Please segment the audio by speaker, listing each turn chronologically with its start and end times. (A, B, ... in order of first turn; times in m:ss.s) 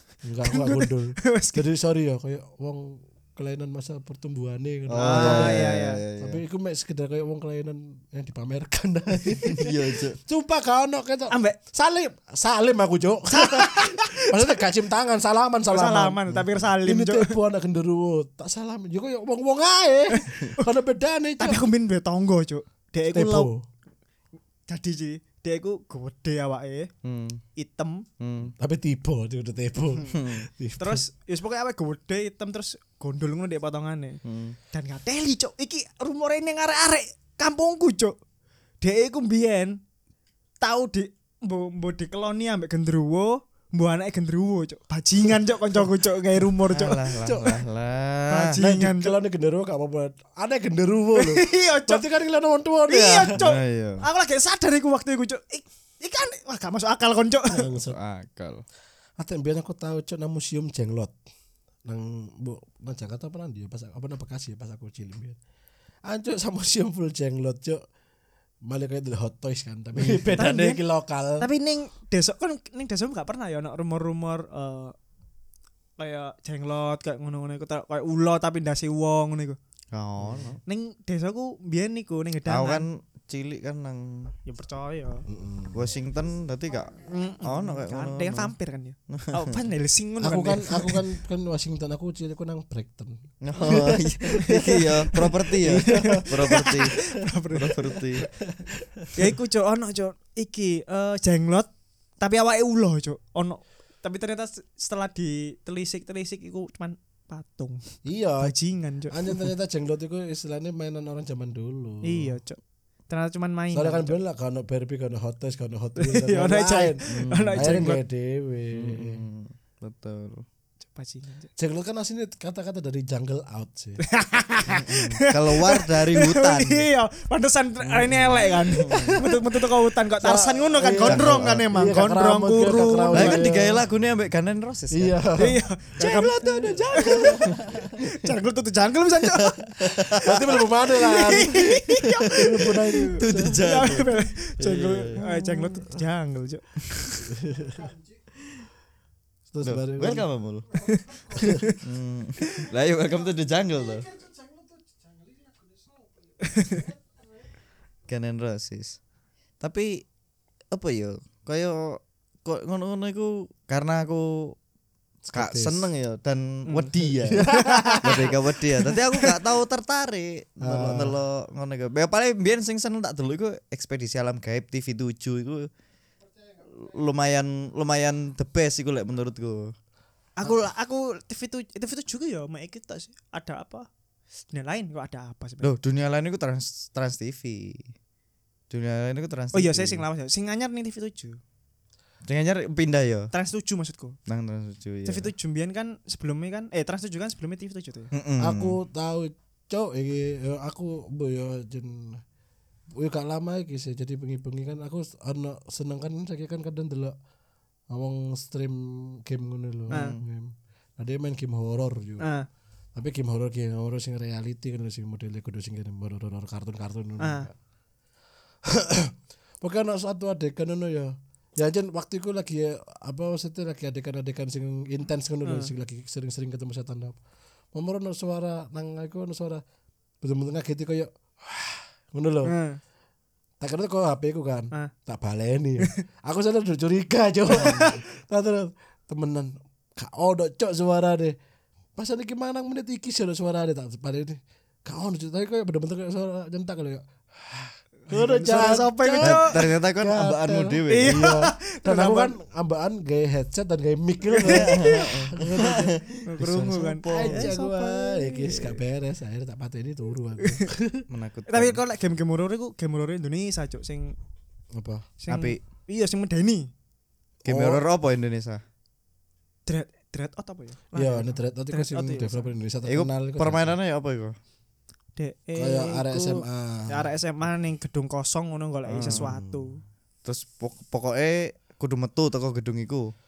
0:00.2-0:21.7 A
0:00.4-0:01.6 B
0:04.9-0:06.4 C
0:05.0-0:06.0 B
0:09.4-0:10.2 C
0:11.3-0:11.6 B
0:13.3-0:14.5 B
0:15.7-0:17.4 B
0:20.1-0:20.6 B
0:21.4-0:23.5 B
0:23.1-0:23.6 A
0:24.7-0:26.9 B
0:27.0-0:27.4 C
0:27.6-0:28.0 B
0:28.2-0:28.5 C
0:28.6-0:31.0 A
0:30.1-0:30.5 C
0:30.8-0:34.2 B
0:34.2-0:34.6 C
0:34.7-0:38.2 B
0:38.8-0:39.8 B
0:40.6-0:47.0 B
0:46.7-0:48.5 C
0:47.2-0:47.6 A
0:48.3-0:49.2 B
0:48.6-0:53.4 A
0:51.2-0:52.0 B
0:52.9-0:57.7 B
0:53.3-0:54.0 C
0:57.5-0:58.0 A
0:57.8-0:58.6 C
0:59.2-1:01.1 A
1:01.8-1:05.4 A
1:06.0-1:07.8 A
1:08.6-1:11.5 A
1:10.0-1:10.8 B
1:11.4-1:14.9 B
1:16.0-1:19.6 B
1:19.9-1:20.6 C
1:20.2-1:20.5 A
1:20.6-1:22.9 B
1:22.5-1:24.3 C
1:24.5-1:25.2 B
1:25.3-1:25.8 A
1:25.7-1:28.5 C
1:27.0-1:31.0 B
1:29.1-1:29.5 C
1:30.2-1:36.6 A
1:33.4-1:37.0 C
1:34.4-1:38.3 B
1:37.5-1:38.2 C
1:38.4-1:39.3 A
1:39.1-1:41.7 B
1:42.2-1:49.5 B
1:48.0-1:48.5 A
1:49.1-1:52.4 A
1:52.0-1:52.6 B
1:53.1-1:54.2 B
1:53.7-1:59.2 A
1:56.0-1:58.0 B
1:57.1-1:57.9 C
1:58.7-2:00.4 C
2:00.9-2:01.5 B
2:01.6-2:04.0 A
2:04.0-2:13.5 B
2:04.7-2:06.9 C
2:08.1-2:09.2 A
2:08.8-2:09.2 C
2:10.2-2:13.8 A
2:11.0-2:11.7 C
2:13.1-2:15.2 C
2:14.9-2:17.9 A
2:15.4-2:19.8 B
2:17.2-2:17.5 C
2:19.3-2:20.6 C
2:20.1-2:21.7 A
2:20.9-2:26.8 B
2:21.2-2:22.4 C
2:22.3-2:23.7 A
2:23.2-2:25.8 C
2:27.0-2:27.2 C
2:27.3-2:27.9 A
2:29.5-2:30.3 A
2:29.6-2:30.7 C
2:30.8-2:31.8 B
2:31.3-2:31.7 A
2:31.8-2:34.2 C
2:36.4-2:36.8 B
2:38.1-2:39.0 C
2:39.6-2:40.0 C
2:40.7-2:44.5 C
2:45.2-2:45.9 A
2:45.3-2:47.5 C
2:46.7-2:48.3 B
2:47.3-2:48.4 A
2:48.0-2:55.7 C
2:50.6-2:51.2 A
2:56.7-2:59.7 C
3:00.4-3:03.9 B
3:04.5-3:05.7 B
3:05.6-3:07.9 C
3:08.7-3:10.0 C
3:09.5-3:11.4 B
3:12.2-3:13.3 C
3:13.3-3:14.2 B
3:14.3-3:15.3 C
3:15.0-3:18.1 B
3:18.1-3:18.8 C
3:18.4-3:22.2 A
3:23.0-3:27.2 A
3:27.9-3:32.3 A
3:29.9-3:30.2 B
3:29.9-3:30.2 C
3:32.2-3:32.5 B
3:33.0-3:37.5 A
3:37.2-3:37.5 B
3:38.6-3:47.2 A
3:45.4-3:45.7 B
3:47.7-3:49.6 A
3:50.2-3:52.5 A
3:52.4-3:52.8 B
3:53.6-4:01.4 A
3:57.5-3:58.0 B
4:02.0-4:16.0 A
4:08.1-4:09.6 B
4:09.2-4:11.4 C
4:10.9-4:12.3 B
4:14.3-4:15.1 B
4:14.4-4:17.5 C
4:16.2-4:18.7 B
4:17.1-4:21.0 A
4:20.4-4:20.6 B
4:21.1-4:21.8 C
4:21.5-4:24.2 B
4:24.7-4:25.1 A
4:25.2-4:26.7 B
4:25.3-4:25.6 C
4:27.4-4:27.8 A
4:27.4-4:28.6 C
4:29.7-4:32.5 B
4:30.9-4:33.8 A
4:32.8-4:34.3 C
4:35.2-4:39.8 B
4:35.6-4:37.1 A
4:38.8-4:39.5 C
4:40.2-4:43.1 C